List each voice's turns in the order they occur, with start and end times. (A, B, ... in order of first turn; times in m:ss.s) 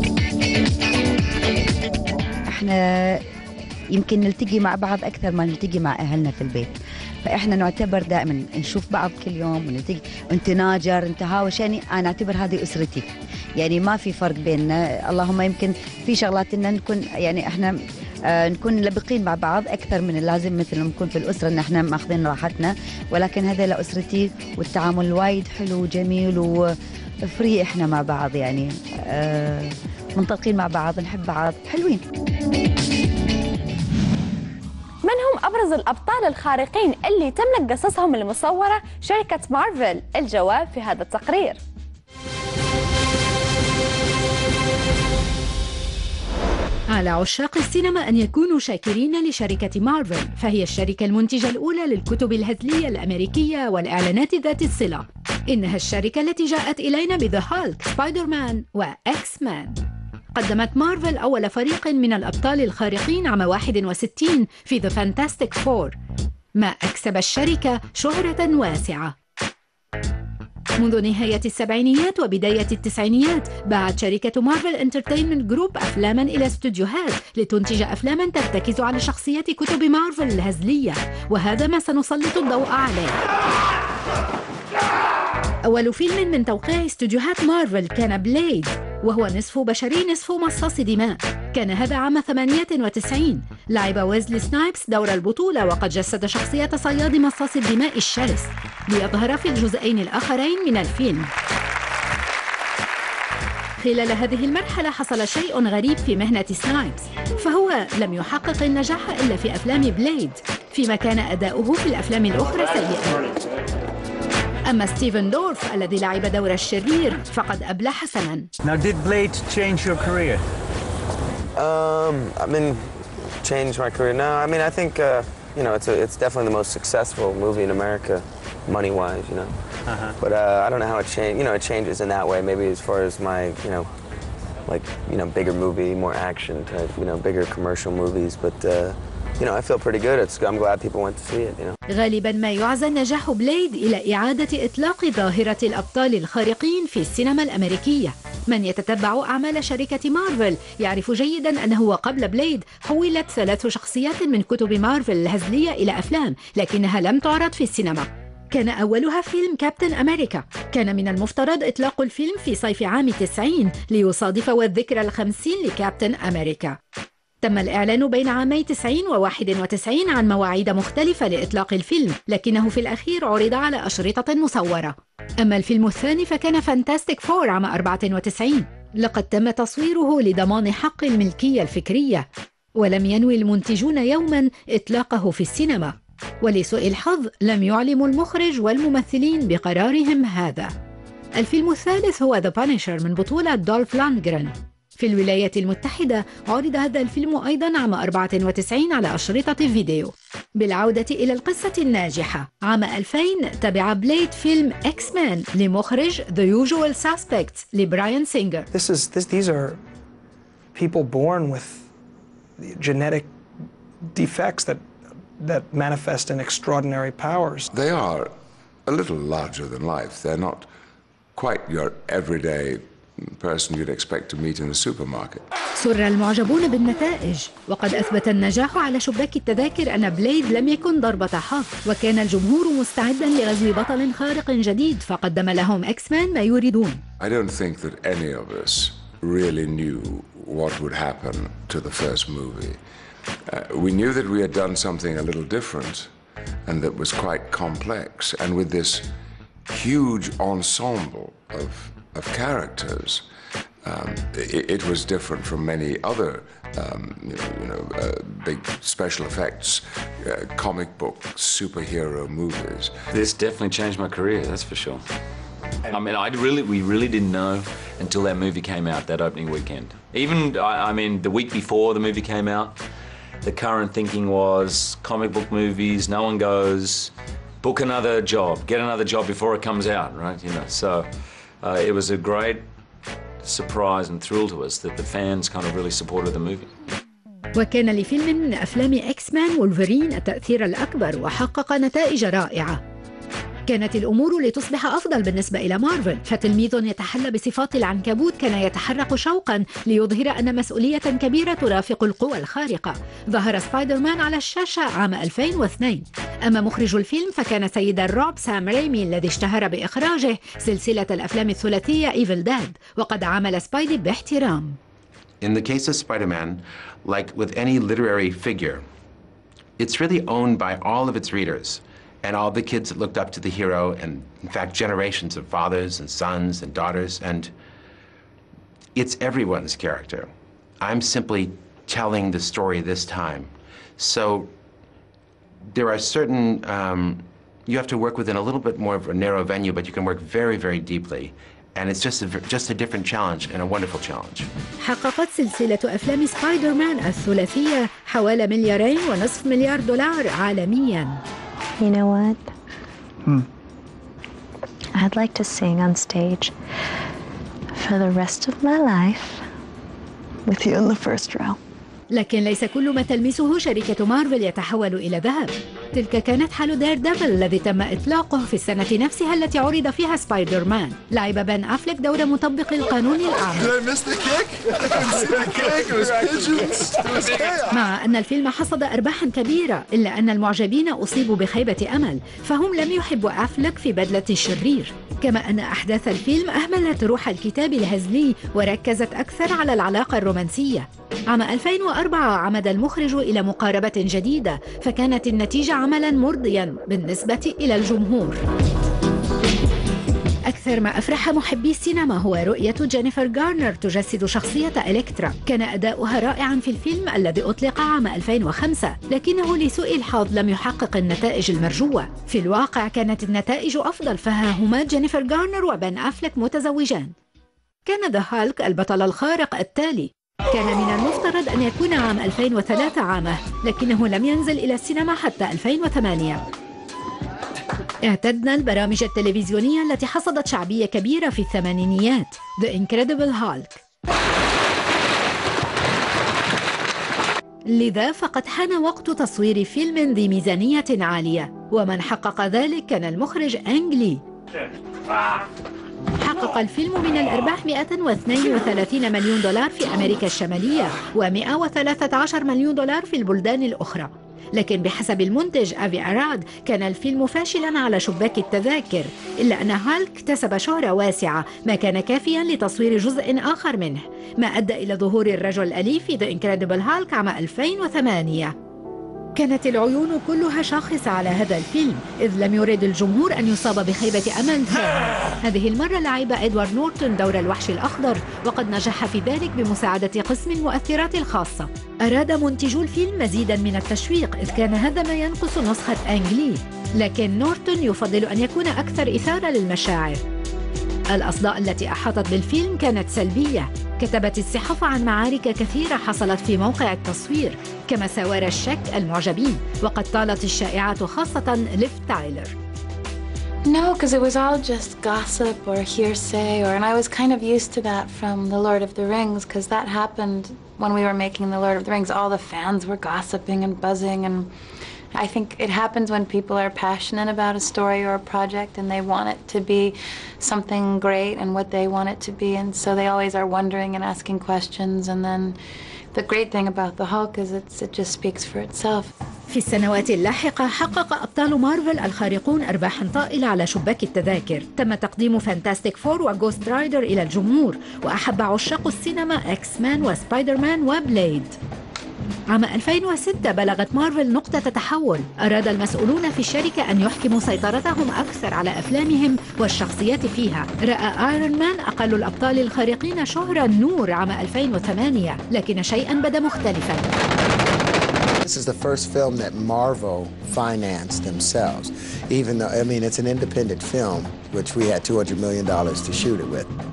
0:02.5-0:03.2 A
0:03.9-0:06.8 A
0:07.3-0:17.8 A
0:18.3-0:26.6 A
0:27.3-0:32.0 A
0:35.1-0:41.6 B
0:46.9-0:59.8 C
1:00.4-1:06.0 C
1:06.6-1:09.2 C
1:10.8-1:23.2 C
1:25.7-1:41.3 C
1:43.8-1:53.2 C
1:54.7-1:58.5 C
1:58.6-2:00.4 D
2:01.6-2:09.5 E
2:09.9-2:10.2 D
2:10.2-2:13.9 E
2:14.7-2:21.8 E
2:21.9-2:46.8 C
2:47.4-3:10.7 C
3:11.4-3:28.7 C
3:28.7-3:29.8 F
3:30.7-3:31.9 F
3:32.6-3:33.3 F
3:34.1-3:34.9 F
3:35.4-3:37.7 F
3:37.7-3:38.4 G
3:38.9-3:40.7 G
3:41.4-3:45.4 G
3:45.8-3:57.0 C
3:57.2-4:02.8 G
4:03.5-4:06.1 G
4:06.7-4:09.1 G
4:09.7-4:13.2 G
4:13.8-4:23.1 G
4:23.1-4:25.0 H
4:25.9-4:32.8 H
4:33.4-4:37.1 H
4:37.6-4:41.1 H
4:41.6-4:42.6 H
4:43.4-4:46.7 H
4:47.6-4:52.8 C
4:53.7-5:14.8 C
5:15.4-5:18.9 I
5:19.8-5:27.5 I
5:29.0-5:34.5 I
5:35.7-5:44.5 I
5:44.8-5:51.2 C
5:51.8-5:52.5 J
5:55.0-5:56.6 J
5:57.7-5:59.5 J
6:00.5-6:01.6 J
6:02.1-6:13.8 C
6:17.7-6:38.4 C
6:40.5-6:57.1 C
6:57.9-7:06.4 C
7:08.0-7:13.8 C
7:17.7-7:24.2 C
7:26.2-7:48.6 C
7:49.4-8:10.2 C
8:11.1-8:22.6 C
8:23.6-8:34.5 K
8:35.1-8:45.6 K
8:46.1-8:49.1 K
8:49.5-9:01.6 C
9:02.5-9:17.2 C
9:18.4-9:26.8 L